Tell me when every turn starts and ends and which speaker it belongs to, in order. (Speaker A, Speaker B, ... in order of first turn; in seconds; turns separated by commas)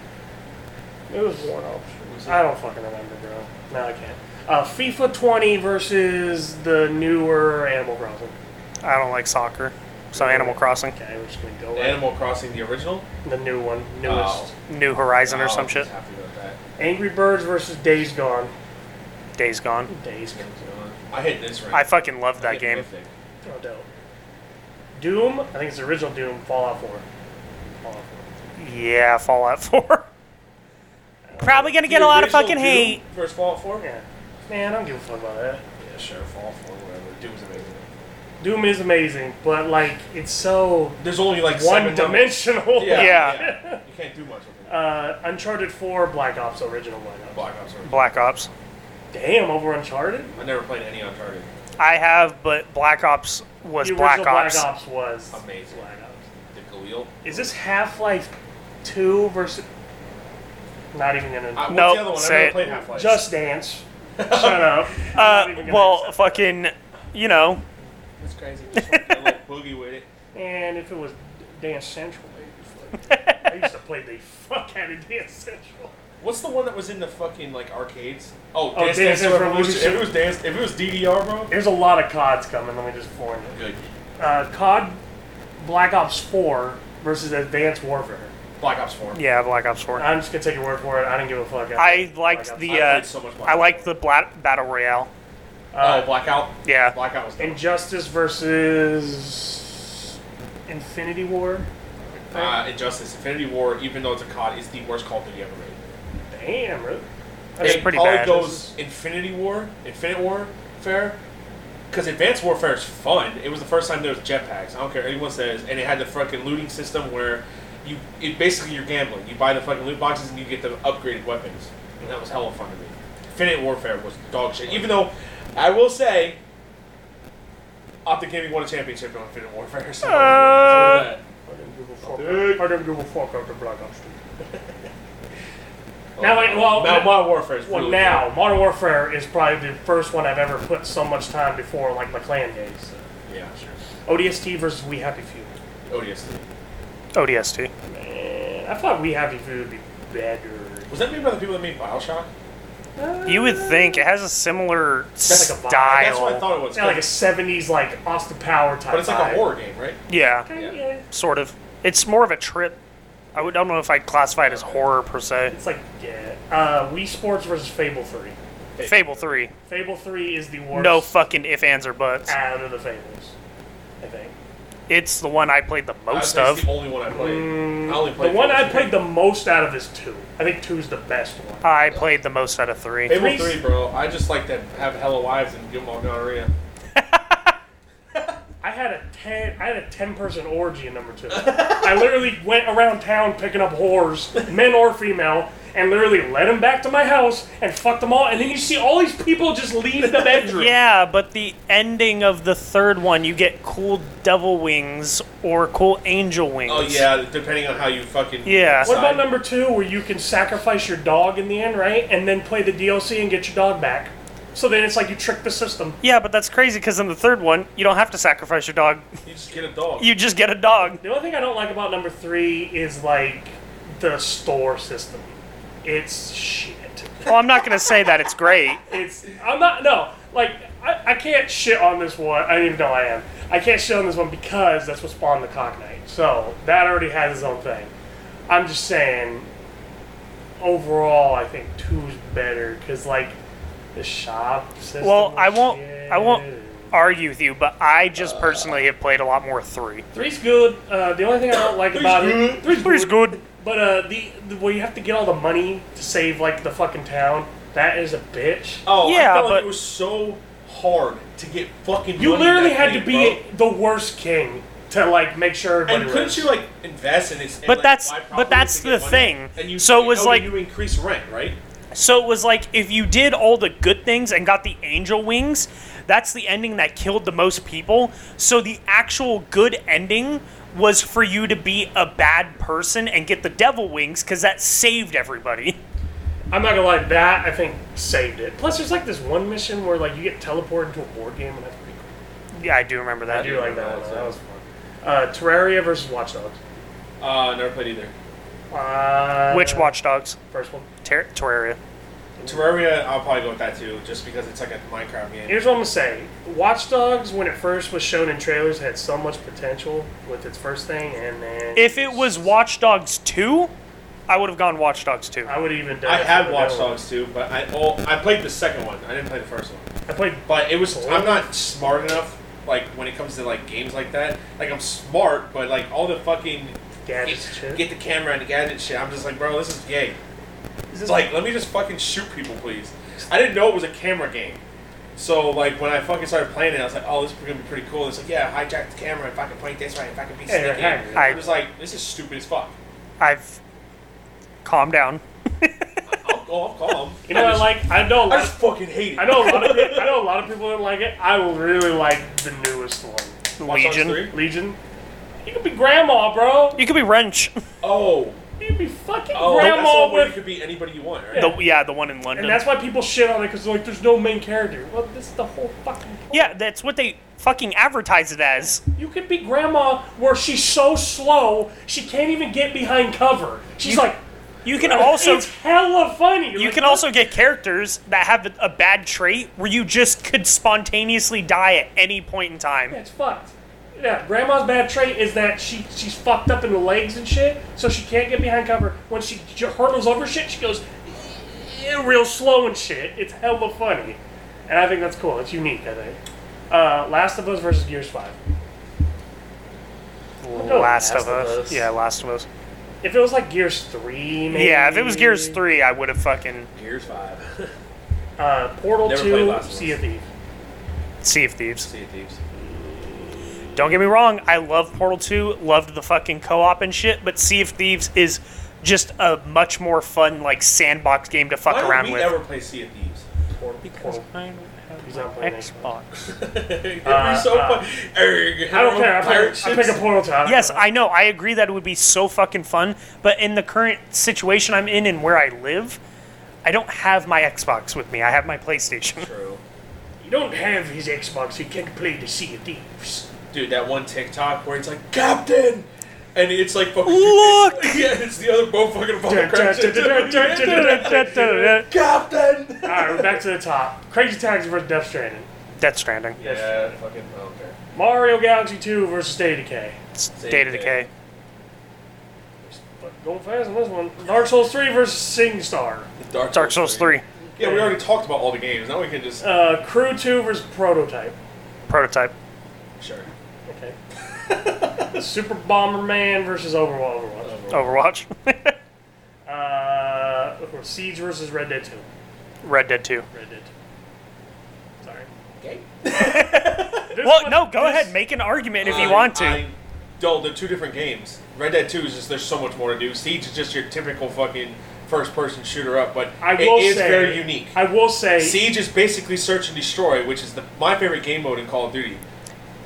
Speaker A: 1.1-8.3, Speaker B: 2.0-2.4, Speaker C: 8.8-10.9, Speaker A: 10.1-12.0, Speaker B: 11.8-13.1, Speaker A: 13.2-14.5, Speaker B: 14.0-14.5, Speaker C: 14.7-15.9, Speaker B: 15.3-16.6, Speaker A: 16.8-18.5, Speaker C: 19.4-19.9, Speaker A: 19.9-20.6, Speaker B: 20.3-23.1, Speaker C: 21.7-22.9, Speaker A: 23.4-23.9, Speaker A: 25.0-27.1, Speaker A: 27.8-28.3, Speaker C: 28.6-30.1, Speaker A: 31.2-31.8, Speaker C: 31.4-33.0, Speaker B: 31.8-33.9, Speaker A: 33.8-35.6, Speaker B: 35.8-37.9, Speaker A: 38.4-43.8, Speaker B: 41.0-44.8, Speaker C: 42.9-43.4, Speaker A: 44.7-47.5, Speaker B: 47.3-48.1, Speaker C: 47.9-48.5, Speaker A: 49.1-50.3, Speaker B: 50.3-51.5, Speaker C: 51.8-54.7, Speaker A: 53.8-56.2, Speaker B: 55.3-55.9, Speaker B: 56.5-57.5, Speaker A: 57.2-59.7, Speaker A: 60.9-61.8, Speaker B: 61.5-63.2, Speaker C: 61.7-62.6, Speaker A: 62.6-66.5, Speaker B: 64.2-64.8, Speaker C: 65.1-67.6, Speaker B: 68.2-70.1, Speaker C: 68.8-69.1, Speaker A: 70.3-75.9, Speaker C: 73.1-73.6, Speaker B: 76.2-81.5, Speaker A: 78.7-80.1, Speaker A: 81.5-83.6, Speaker B: 83.5-83.8, Speaker A: 84.2-85.0, Speaker A: 85.6-88.3, Speaker B: 88.6-89.2, Speaker C: 89.2-90.1, Speaker A: 90.0-92.9, Speaker C: 91.8-95.1, Speaker B: 92.6-94.0, Speaker A: 95.7-96.1, Speaker B: 95.8-97.6, Speaker C: 96.7-97.0, Speaker A: 97.4-100.1, Speaker A: 100.7-101.7, Speaker B: 102.1-105.8, Speaker A: 102.3-102.6, Speaker A: 106.3-108.7, Speaker C: 107.6-108.5, Speaker B: 107.6-111.2, Speaker B: 111.9-126.4, Speaker B: 128.1-131.2, Speaker C: 130.0-131.1, Speaker A: 131.4-134.2, Speaker B: 132.0-132.7, Speaker B: 136.2-138.3, Speaker A: 136.2-143.1, Speaker B: 143.3-143.8, Speaker A: 144.1-145.5, Speaker B: 145.9-146.5, Speaker C: 147.1-147.7, Speaker A: 147.9-150.9, Speaker B: 150.9-152.3, Speaker A: 153.0-154.1, Speaker C: 153.3-156.4, Speaker B: 155.3-157.1, Speaker A: 155.3-156.0, Speaker A: 156.7-159.4, Speaker B: 158.9-160.0, Speaker C: 160.1-160.5, Speaker A: 160.5-161.1, Speaker C: 161.1-162.8, Speaker C: 163.3-165.6, Speaker B: 164.4-164.9, Speaker A: 165.5-168.4, Speaker B: 168.8-169.5, Speaker C: 168.8-169.5, Speaker A: 169.7-171.1, Speaker C: 170.7-172.3, Speaker A: 172.3-173.3, Speaker A: 174.0-174.3, Speaker C: 174.9-176.7, Speaker B: 176.1-179.0, Speaker A: 177.1-181.7, Speaker C: 181.6-183.4, Speaker B: 183.1-186.5, Speaker A: 183.1-183.6, Speaker C: 187.0-187.6, Speaker A: 188.6-200.7, Speaker B: 191.3-192.1, Speaker B: 200.0-200.7, Speaker C: 200.6-207.1, Speaker B: 206.7-209.3, Speaker C: 208.4-208.9, Speaker A: 208.8-216.0, Speaker C: 216.0-219.1, Speaker B: 219.2-220.1, Speaker C: 220.0-221.0, Speaker A: 220.9-227.3, Speaker C: 227.2-228.8, Speaker A: 228.9-237.9, Speaker A: 238.5-239.5, Speaker A: 240.6-243.4, Speaker A: 243.9-247.0, Speaker C: 245.0-250.1, Speaker A: 250.1-258.9, Speaker B: 251.9-252.7, Speaker C: 252.7-253.4, Speaker B: 258.9-263.4, Speaker C: 259.0-259.7, Speaker A: 262.2-266.5, Speaker B: 265.9-271.6, Speaker C: 267.6-270.5, Speaker C: 271.9-285.8, Speaker A: 286.5-292.1, Speaker C: 292.6-293.5, Speaker B: 293.3-294.4, Speaker A: 293.3-296.6, Speaker B: 297.2-298.1, Speaker A: 298.7-299.9, Speaker C: 299.5-300.4, Speaker A: 300.5-300.9, Speaker C: 301.0-301.8, Speaker A: 302.4-302.8, Speaker B: 302.4-305.6, Speaker A: 305.5-312.5, Speaker C: 311.8-313.7, Speaker C: 314.3-315.5, Speaker A: 315.4-317.0, Speaker B: 316.0-319.9, Speaker A: 320.1-322.0, Speaker B: 320.5-330.2, Speaker A: 327.1-327.8, Speaker B: 331.0-334.6, Speaker B: 335.1-342.8, Speaker A: 340.5-341.5, Speaker C: 341.2-341.5, Speaker C: 343.2-343.6, Speaker C: 344.6-346.0, Speaker B: 346.1-350.2, Speaker A: 347.3-348.6, Speaker A: 349.1-353.4, Speaker C: 353.6-354.3, Speaker B: 353.6-354.4, Speaker A: 354.3-354.8, Speaker A: 355.4-356.8, Speaker C: 356.8-357.6, Speaker B: 357.8-358.4, Speaker A: 358.6-360.4, Speaker B: 359.3-361.5, Speaker A: 361.3-361.6, Speaker C: 361.4-362.6, Speaker A: 362.4-366.5, Speaker C: 366.3-368.8, Speaker A: 368.9-374.2, Speaker C: 373.8-374.1, Speaker C: 374.6-375.5, Speaker A: 374.8-377.1, Speaker C: 376.6-383.0, Speaker A: 382.9-398.4, Speaker C: 400.4-402.5, Speaker A: 400.5-401.9, Speaker A: 403.0-405.6, Speaker C: 404.5-406.7, Speaker B: 406.7-407.7, Speaker A: 408.4-410.3, Speaker B: 409.0-410.0, Speaker C: 411.2-411.9, Speaker B: 411.9-412.4, Speaker A: 412.7-413.7, Speaker C: 413.7-422.4, Speaker B: 421.7-423.2, Speaker A: 423.5-424.2, Speaker C: 423.8-426.2, Speaker A: 425.1-425.9, Speaker B: 426.3-430.1, Speaker A: 427.0-427.9, Speaker A: 428.7-430.8, Speaker C: 430.4-436.0, Speaker C: 436.6-439.3, Speaker B: 439.1-439.6, Speaker A: 440.2-443.3, Speaker B: 443.5-453.4, Speaker C: 447.1-448.1, Speaker A: 449.2-451.8, Speaker C: 450.6-451.9, Speaker A: 452.8-455.5, Speaker C: 455.8-456.4, Speaker B: 456.4-457.8, Speaker A: 456.4-456.9, Speaker A: 457.9-460.0, Speaker C: 460.2-461.1, Speaker B: 460.4-461.1, Speaker A: 462.6-466.1, Speaker B: 466.2-469.4, Speaker C: 466.5-467.2, Speaker A: 467.5-468.0, Speaker A: 469.4-471.4, Speaker C: 471.9-472.3, Speaker B: 473.0-473.3, Speaker A: 473.7-474.0, Speaker B: 474.4-475.1, Speaker A: 475.0-477.7, Speaker B: 477.4-477.9, Speaker C: 477.7-478.8, Speaker A: 479.5-482.1, Speaker C: 482.6-483.3, Speaker A: 483.3-483.7, Speaker A: 485.0-485.3, Speaker B: 485.6-487.1, Speaker C: 486.1-489.6, Speaker A: 487.1-488.1, Speaker B: 488.8-497.8, Speaker A: 496.4-498.6, Speaker B: 498.4-502.2